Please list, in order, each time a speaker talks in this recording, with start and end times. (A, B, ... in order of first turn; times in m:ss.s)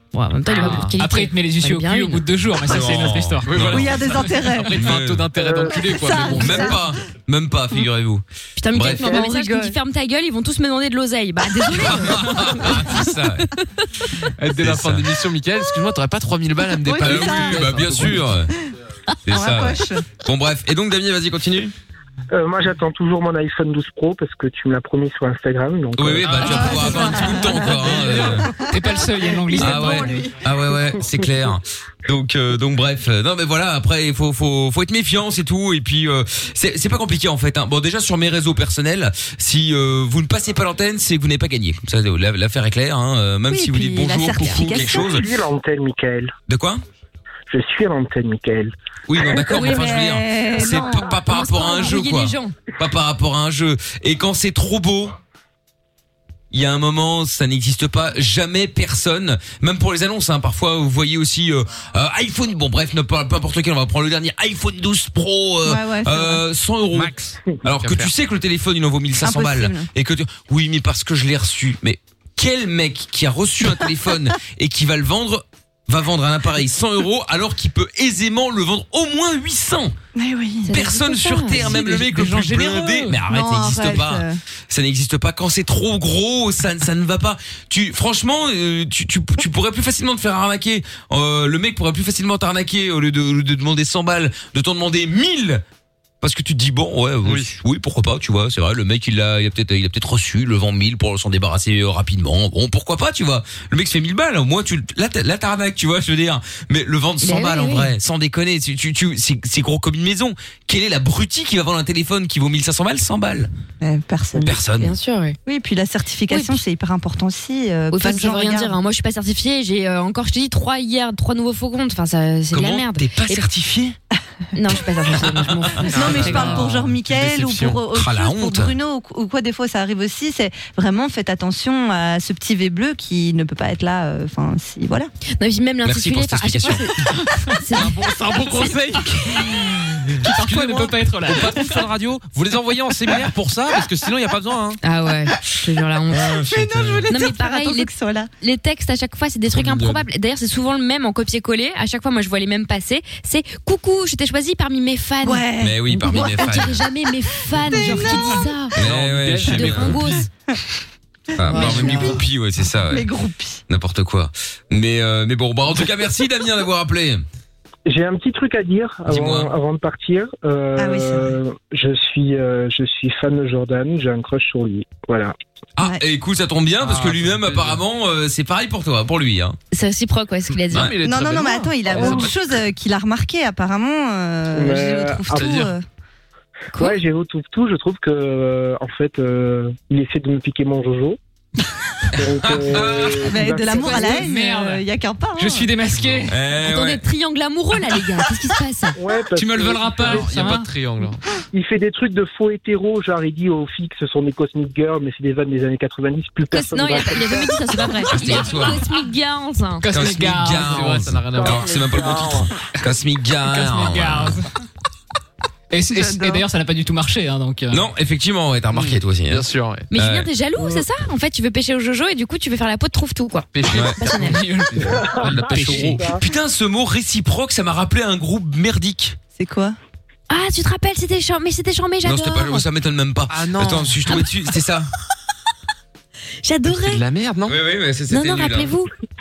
0:00.1-0:02.2 A
0:00.5-0:03.8 B
0:00.6-0:00.9 C
0:02.6-0:04.0 D
0:03.4-0:06.8 C
0:03.7-0:04.9 E
0:04.7-0:05.3 D
0:05.3-0:05.8 F
0:05.8-0:06.9 E
0:06.3-0:09.1 D
0:08.6-0:12.9 A
0:08.8-0:09.8 E
0:11.6-0:12.1 E
0:11.7-0:13.5 D
0:14.4-0:18.3 C
0:14.6-0:15.1 D
0:16.8-0:18.1 E
0:17.0-0:18.5 D
0:19.3-0:21.7 D
0:19.3-0:20.1 E
0:22.3-0:26.7 F
0:26.0-0:28.5 D
0:26.2-0:27.1 C
0:26.4-0:30.4 E
0:27.8-0:28.4 C
0:28.6-0:30.2 B
0:29.6-0:45.2 D
0:43.5-0:45.2 E
0:44.6-0:46.3 F
0:46.5-0:46.8 D
0:47.5-0:48.7 F
0:49.1-0:55.2 D
0:49.3-0:51.1 E
0:49.5-0:52.5 A
0:56.5-1:19.9 D
1:05.6-1:06.4 E
1:06.9-1:08.1 C
1:09.2-1:09.9 E
1:20.2-1:20.7 E
1:20.6-1:21.7 A
1:20.7-1:35.6 D
1:21.5-1:23.2 B
1:23.3-1:24.4 E
1:36.2-1:53.5 D
1:37.2-1:37.5 C
1:47.2-1:47.9 A
1:53.8-1:54.5 E
1:54.3-1:54.9 D
1:54.8-1:55.4 A
1:55.4-1:58.8 E
1:56.3-1:56.6 A
1:57.9-2:03.5 A
2:02.5-2:04.0 D
2:04.5-2:06.6 A
2:05.2-2:06.5 D
2:05.9-2:07.9 C
2:05.9-2:15.1 E
2:07.9-2:08.7 D
2:15.4-2:17.0 A
2:15.8-2:16.9 D
2:17.5-2:18.0 A
2:17.7-2:24.8 C
2:20.2-2:21.8 B
2:24.8-2:26.4 A
2:26.1-2:27.1 D
2:26.3-2:28.3 E
2:27.1-2:38.7 A
2:29.5-2:30.0 C
2:35.2-2:36.5 E
2:35.6-2:36.8 D
2:37.5-2:38.6 E
2:38.7-2:40.0 D
2:38.8-2:40.2 C
2:39.4-2:40.3 A
2:41.4-2:43.1 D
2:41.4-2:42.2 E
2:41.5-2:42.1 A
2:42.8-2:43.6 E
2:43.7-2:47.2 D
2:47.9-2:55.3 F
2:49.1-2:49.5 D
2:50.8-2:51.4 E
2:55.8-2:59.6 D
2:56.8-2:57.8 C
2:59.7-3:00.9 A
3:00.7-3:02.6 C
3:01.0-3:05.8 E
3:02.0-3:02.3 F
3:04.5-3:05.6 F
3:05.3-3:05.7 C
3:06.8-3:11.2 F
3:12.1-3:14.2 F
3:12.2-3:13.3 D
3:13.2-3:15.7 E
3:13.7-3:14.2 A
3:14.1-3:14.8 B
3:15.4-3:16.3 B
3:15.9-3:16.3 C
3:16.3-3:17.0 D
3:16.6-3:19.0 A
3:19.0-3:20.4 F
3:19.4-3:20.7 B
3:20.0-3:21.2 C
3:21.5-3:27.7 F
3:26.5-3:29.8 A
3:28.1-3:28.8 D
3:29.8-3:31.0 B
3:29.9-3:34.4 D
3:30.0-3:31.8 C
3:31.4-3:32.4 F
3:33.4-3:34.5 B
3:35.7-3:37.8 B
3:35.9-3:36.4 E
3:37.7-3:40.3 D
3:38.7-3:39.9 C
3:39.9-3:44.4 A
3:43.5-3:46.0 C
3:43.6-3:44.0 D
3:44.1-3:46.0 B
3:45.0-3:46.2 F
3:45.3-3:49.2 D
3:49.3-3:49.8 E
3:50.3-3:52.6 A
3:52.0-3:54.9 D
3:53.3-3:54.1 C
3:56.4-3:57.0 A
3:56.7-3:57.6 C
3:57.4-3:58.7 D
3:58.1-3:58.9 A